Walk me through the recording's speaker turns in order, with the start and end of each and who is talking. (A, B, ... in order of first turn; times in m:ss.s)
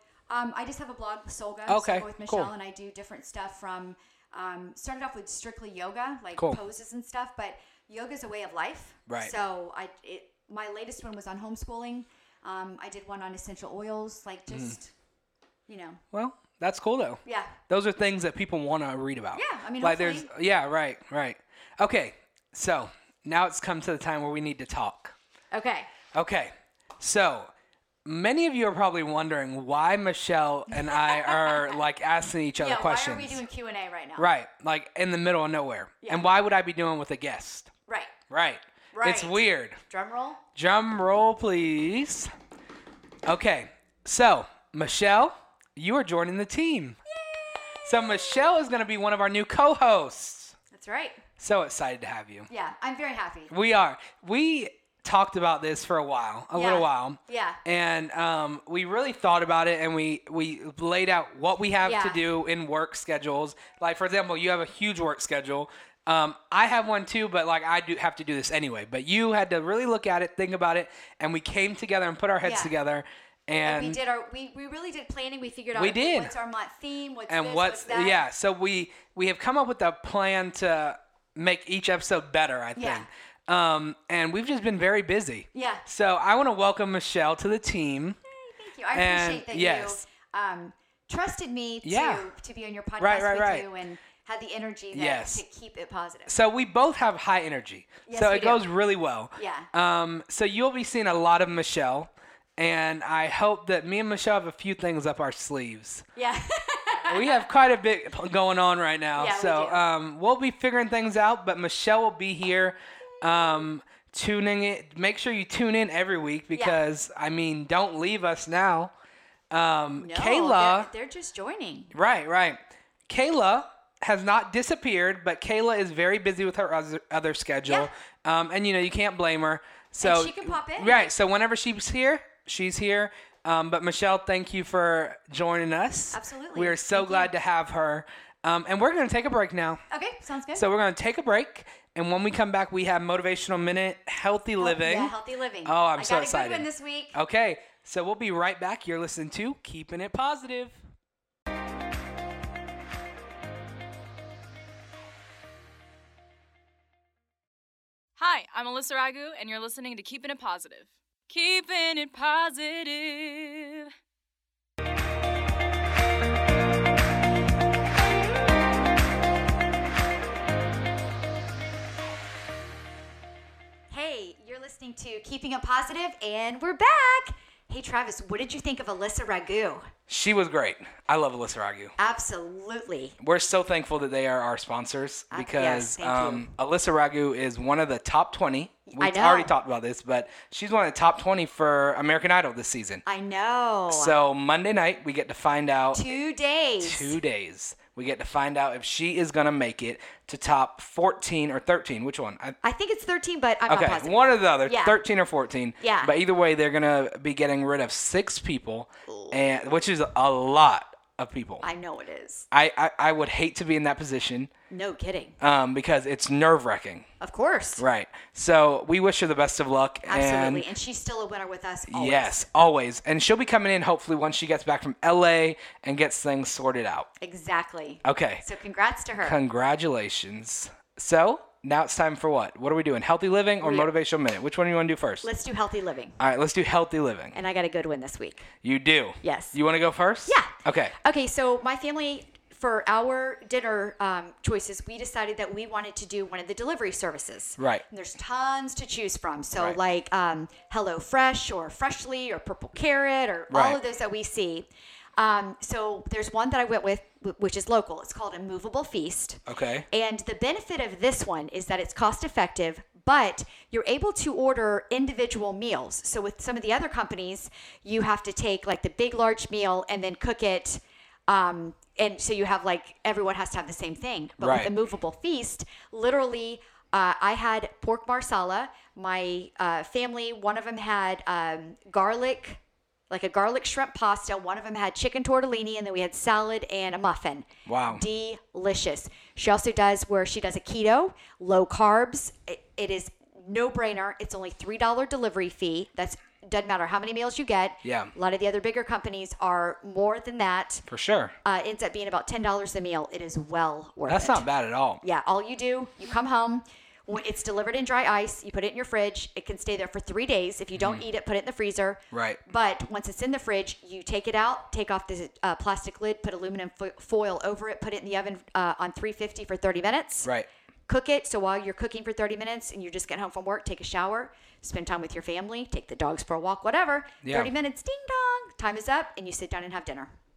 0:00.3-0:14.9 A
0:01.7-0:02.5 B
0:06.4-0:06.6 B
0:09.1-0:09.3 B
0:14.5-0:14.8 B
0:15.7-0:16.0 A
0:16.1-0:25.1 B
0:17.2-0:17.6 A
0:19.3-0:20.3 A
0:25.5-0:25.9 A
0:26.1-0:27.5 B
0:28.0-0:33.4 B
0:30.7-0:31.8 A
0:32.6-0:34.3 A
0:34.2-0:37.7 B
0:36.0-0:36.3 A
0:37.9-0:38.1 A
0:38.3-0:39.8 B
0:38.9-0:40.4 A
0:40.5-0:42.3 B
0:43.2-0:47.0 B
0:47.1-0:48.2 A
0:47.8-0:50.6 B
0:50.7-0:51.2 A
0:51.4-0:52.5 B
0:52.5-0:53.5 A
0:53.5-1:14.0 B
0:56.5-0:57.6 A
1:01.8-1:02.2 A
1:12.4-1:12.7 A
1:13.6-1:18.2 A
1:15.7-1:16.3 B
1:17.3-1:28.2 B
1:22.8-1:23.0 A
1:25.5-1:25.8 A
1:28.3-1:36.3 A
1:28.9-1:30.0 B
1:31.8-1:32.3 B
1:33.0-1:33.7 B
1:34.9-1:35.4 B
1:36.3-1:46.0 B
1:38.1-1:38.6 A
1:39.4-1:39.7 A
1:46.2-1:47.4 A
1:47.1-1:58.9 B
1:49.2-1:49.8 A
1:56.5-1:56.8 A
1:59.5-2:00.9 B
2:00.0-2:01.9 A
2:01.9-2:19.8 B
2:10.0-2:11.1 A
2:16.1-2:17.3 A
2:19.9-2:20.7 A
2:20.5-2:25.1 B
2:24.6-2:27.2 A
2:25.6-2:30.8 B
2:38.2-2:43.9 C
2:53.9-2:59.9 A
3:00.1-3:01.9 B
3:02.0-3:03.2 A
3:03.2-3:13.0 B
3:05.3-3:06.5 A
3:08.9-3:09.5 A
3:13.0-3:14.2 A
3:13.9-3:16.1 B
3:15.9-3:17.2 A
3:16.8-3:22.6 B
3:22.6-3:25.0 A
3:23.7-3:31.6 B
3:25.8-3:26.1 A
3:29.1-3:29.4 A
3:31.6-3:32.5 A
3:32.5-3:34.5 B
3:34.7-3:35.4 A
3:35.4-3:37.1 B
3:37.2-3:37.8 A
3:37.8-3:40.6 B
3:40.1-3:42.5 A
3:41.9-3:47.1 B
3:47.2-3:49.4 A
3:48.0-3:48.4 B
3:49.2-3:55.3 B
3:53.6-3:53.9 A
3:55.2-3:56.2 A
3:56.2-3:57.4 B
3:57.3-3:58.5 A
3:58.6-4:00.9 B
3:59.2-3:59.6 A
4:00.2-5:00.9 A
4:13.5-4:13.8 B
4:19.5-4:19.8 B
4:34.4-4:34.7 B
4:47.6-4:48.0 B
4:57.8-4:58.1 B
5:00.9-5:01.4 B
5:01.4-5:04.4 A
5:04.1-5:05.0 B
5:05.0-5:20.3 A
5:10.8-5:11.0 B
5:12.1-5:12.4 B
5:20.9-5:30.1 A
5:27.2-5:27.5 B